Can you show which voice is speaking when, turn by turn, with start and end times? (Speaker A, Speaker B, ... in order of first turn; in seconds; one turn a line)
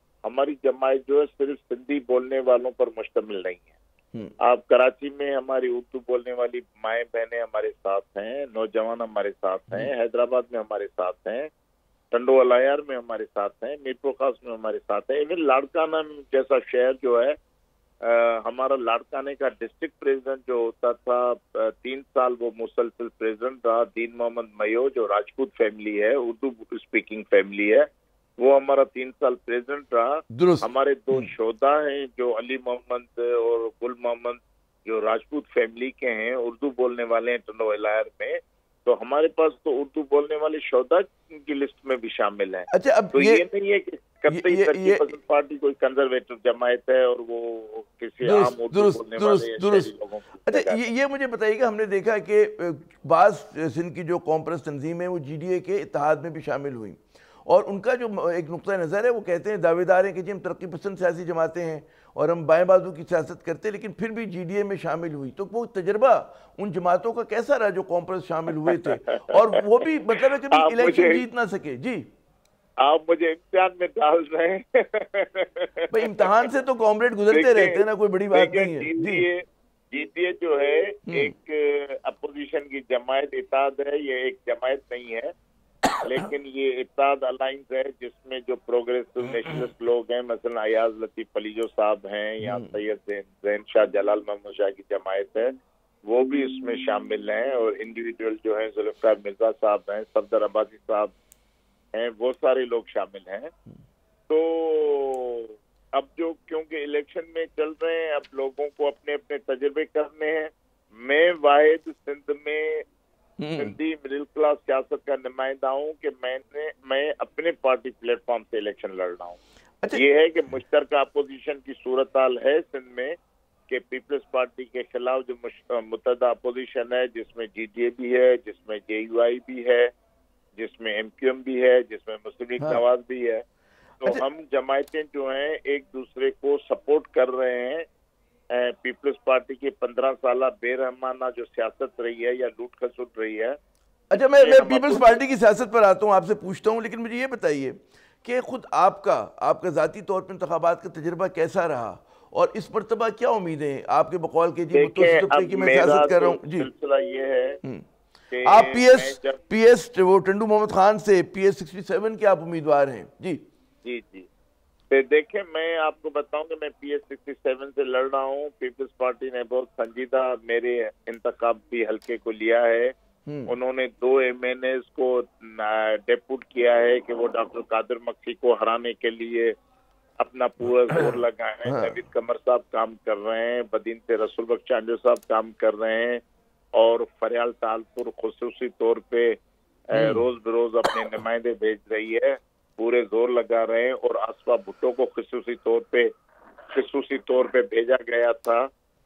Speaker A: 0.2-3.7
Speaker A: 4.4-11.5
Speaker A: 12.1-17.4
Speaker A: 18.0-50.8
Speaker B: 30.3-31.3
Speaker B: 42.7-43.4
Speaker B: 44.3-45.1
Speaker B: 48.2-49.9
Speaker B: 50.5-72.0
Speaker A: 68.7-71.2
Speaker A: 72.8-76.5
Speaker B: 75.9-79.2
Speaker A: 77.3-85.3
Speaker A: 86.0-95.5
Speaker B: 92.4-92.8
Speaker A: 96.0-101.1
Speaker A: 101.9-103.5
Speaker A: 104.3-112.8
Speaker B: 113.4-113.7
Speaker A: 113.6-119.4
Speaker A: 119.9-123.2
Speaker A: 123.7-129.9
Speaker A: 130.6-133.4
Speaker A: 134.0-137.8
Speaker A: 138.5-143.6
Speaker B: 144.1-156.7
Speaker A: 144.1-145.2
Speaker A: 154.7-157.6
Speaker A: 158.3-159.4
Speaker B: 158.4-163.4
Speaker A: 163.8-164.3
Speaker A: 164.9-172.9
Speaker A: 173.5-179.5
Speaker A: 180.2-196.1
Speaker B: 181.7-181.9
Speaker B: 189.9-190.2
Speaker A: 196.7-198.7